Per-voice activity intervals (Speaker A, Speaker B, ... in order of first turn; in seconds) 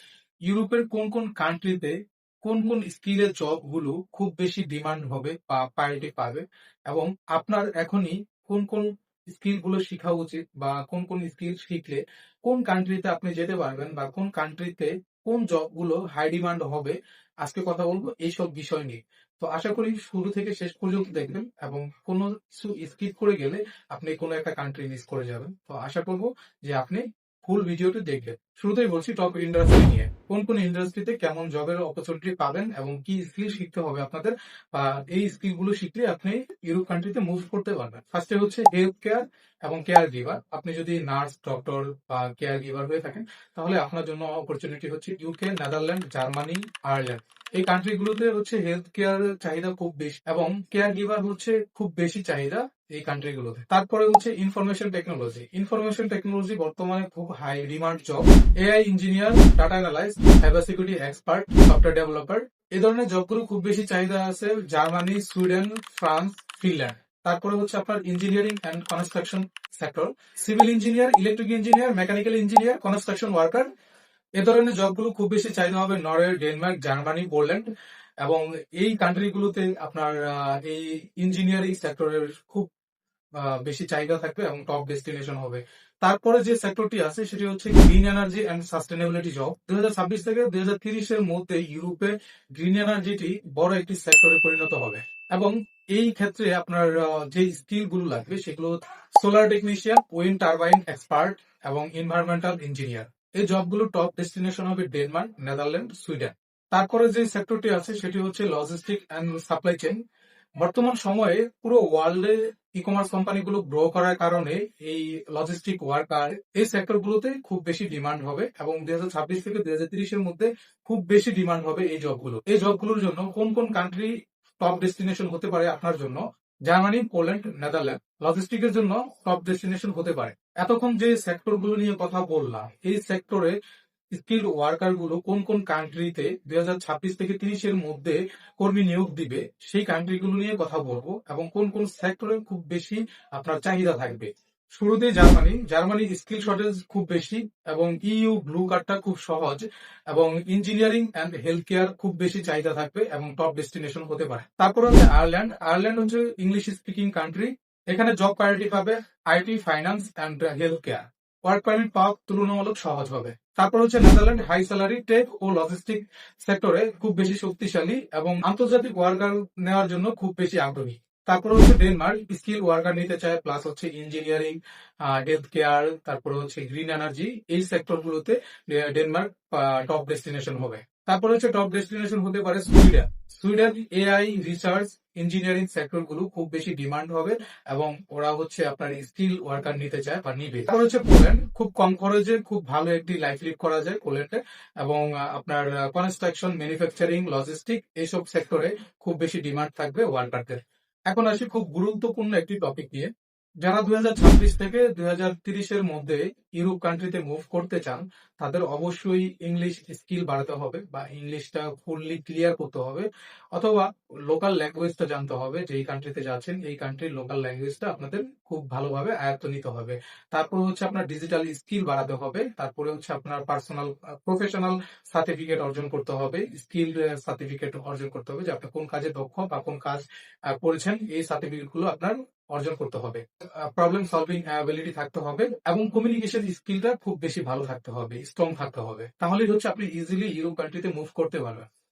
Speaker A: 0.5-1.9, 2.4-73.7, 74.4-77.7, 78.2-82.7, 83.4-110.0, 110.6-133.5, 134.1-203.1, 203.6-241.7